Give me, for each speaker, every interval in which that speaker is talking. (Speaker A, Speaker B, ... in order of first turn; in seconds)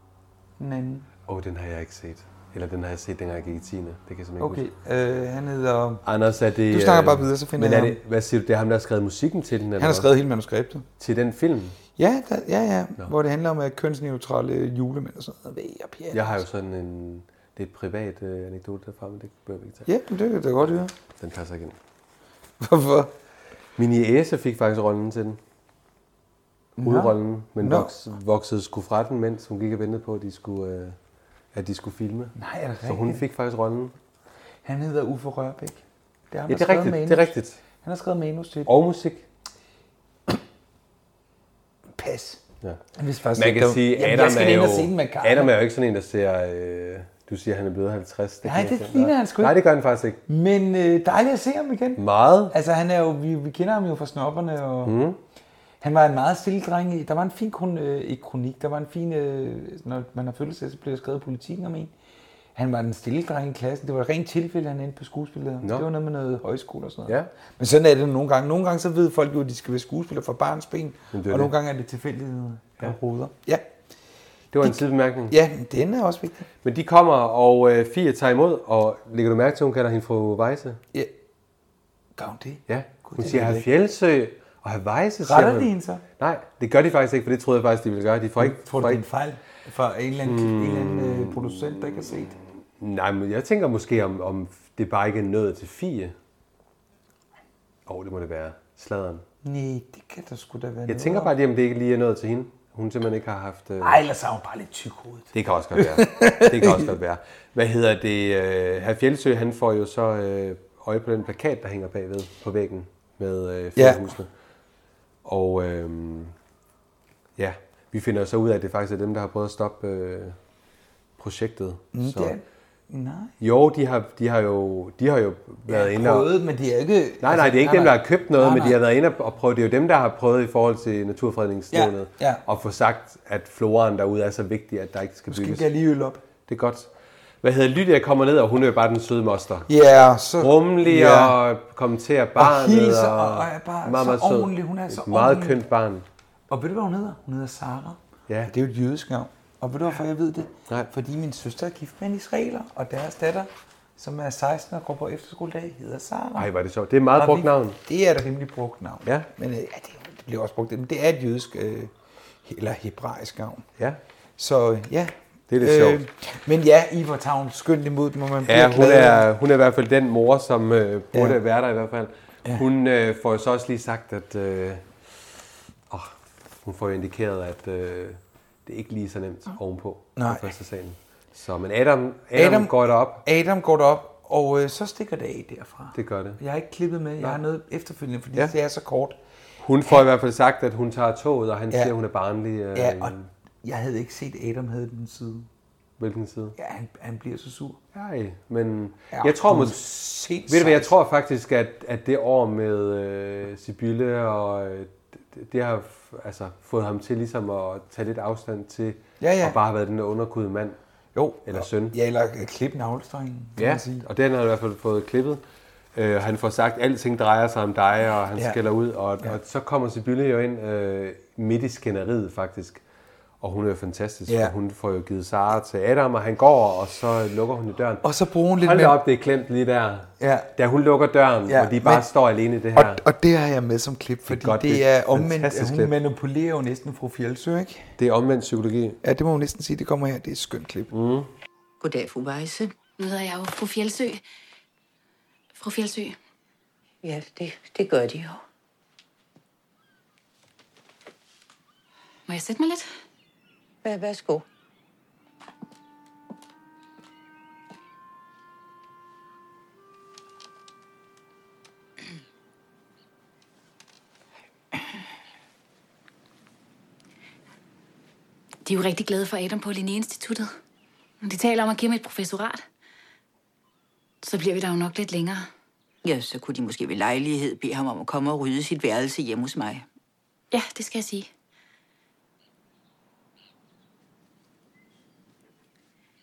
Speaker A: 0.6-1.1, 4.4-6.0, 6.7-8.0, 9.8-10.9, 11.9-16.4, 19.9-20.9, 22.6-23.1, 26.8-27.9, 32.3-33.2, 34.6-38.7, 42.0-42.4, 43.0-45.5, 48.4-49.6, 50.3-55.0, 55.8-61.9, 62.5-73.6, 74.6-76.5, 82.2-83.7, 85.2-86.0, 88.4-92.4, 99.4-101.3, 103.8-106.9, 113.8-114.0, 121.9-123.3, 125.7-128.8, 131.7-132.4, 135.3-136.2, 139.7-141.4, 142.4-145.6, 146.5-156.5, 157.1-161.9, 162.4-163.7, 164.4-169.3, 171.1-171.4, 180.2-180.4, 182.3-189.2, 192.7-195.5, 196.6-197.8, 199.1-200.9, 209.2-209.6, 211.1-214.1, 224.3-224.5, 228.0-229.0, 230.2-230.5, 231.5-232.1, 232.7-237.9, 239.0-240.9
Speaker B: 1.3-4.7, 6.0-10.1, 11.0-11.8, 16.1-19.9, 21.1-21.8, 23.8-25.4, 26.8-31.0, 31.5-33.9, 36.5-37.6, 38.6-39.2, 43.3-50.2, 52.0-52.5, 54.8-55.2, 65.6-65.9, 71.1-71.5, 74.5-75.4, 76.6-80.8, 82.7-89.0, 90.2-92.1, 92.7-96.1, 97.8-99.2, 100.9-104.0, 105.3-114.3, 115.2-116.3, 117.4-120.4, 121.2-122.3, 123.4-126.3, 127.2-135.7, 136.4-136.9, 137.4-139.7, 140.4-146.1, 156.3-157.8, 165.5-166.0, 168.4-174.9, 175.9-183.2, 185.9-186.4, 189.6-193.3, 196.0-196.5, 197.9-199.8, 200.5-210.8, 211.4-211.9, 213.6-215.4, 215.9-222.8, 223.4-228.0, 228.6-233.0, 234.3-235.9, 238.0-239.0, 240.9-241.3
Speaker C: 241.8-242.7, 247.0-248.4, 253.8-254.4, 276.0-279.8
Speaker D: 243.0-244.2, 245.5-246.2, 252.3-252.9, 268.6-270.5, 271.2-272.6, 274.2-275.5, 280.5-281.3